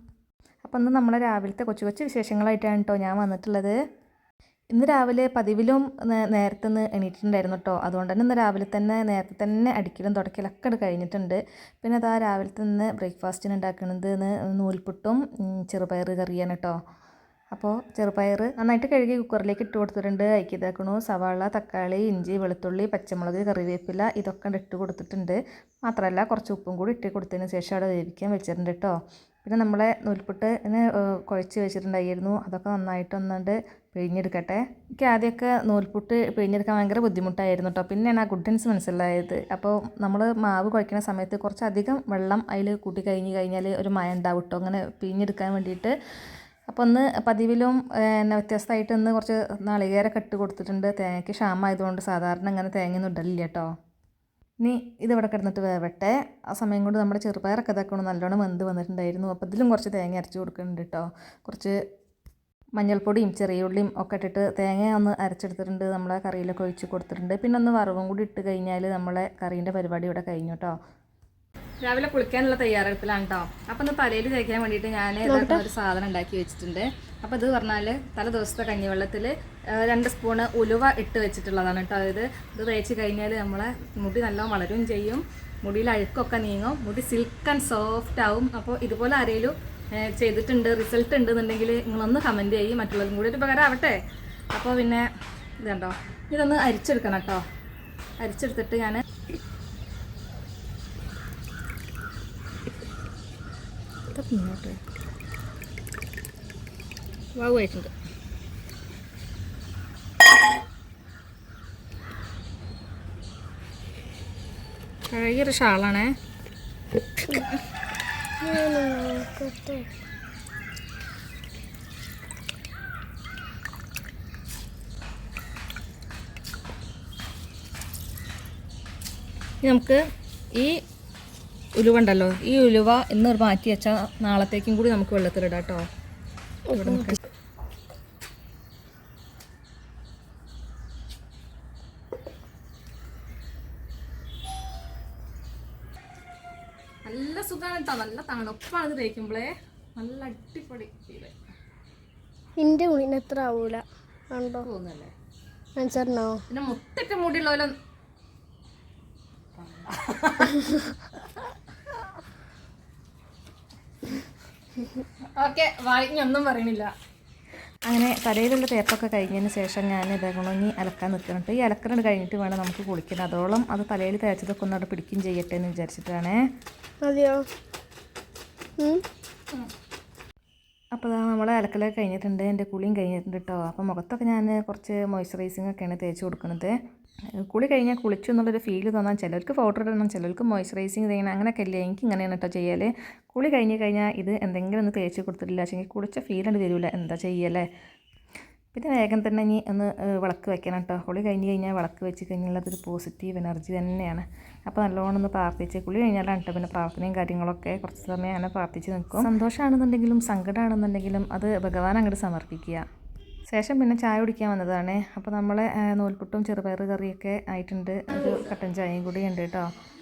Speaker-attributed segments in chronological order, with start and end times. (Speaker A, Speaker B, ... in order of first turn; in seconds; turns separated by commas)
Speaker A: 0.7-3.7, Speaker A: 4.7-16.8, Speaker A: 17.5-45.9, Speaker A: 46.7-53.7, Speaker A: 54.6-61.8, Speaker A: 62.8-70.8, Speaker A: 71.8-94.0, Speaker B: 75.3-75.6, Speaker A: 94.5-95.0, Speaker A: 95.6-97.4, Speaker A: 98.2-99.0, Speaker A: 104.1-104.8, Speaker A: 107.4-107.9, Speaker A: 115.1-116.1, Speaker B: 118.4-119.9, Speaker A: 129.6-130.0, Speaker A: 131.8-135.9, Speaker A: 136.7-137.2, Speaker B: 136.7-137.2, Speaker A: 147.1-151.3, Speaker B: 152.6-154.7, Speaker A: 154.6-155.1, Speaker B: 155.8-156.4, Speaker A: 156.5-157.7, Speaker A: 159.6-160.9, Speaker A: 165.4-166.9, Speaker A: 167.9-176.4, Speaker B: 177.1-177.4, Speaker A: 180.9-186.7, Speaker A: 187.5-197.7, Speaker A: 198.7-212.8, Speaker A: 213.5-219.7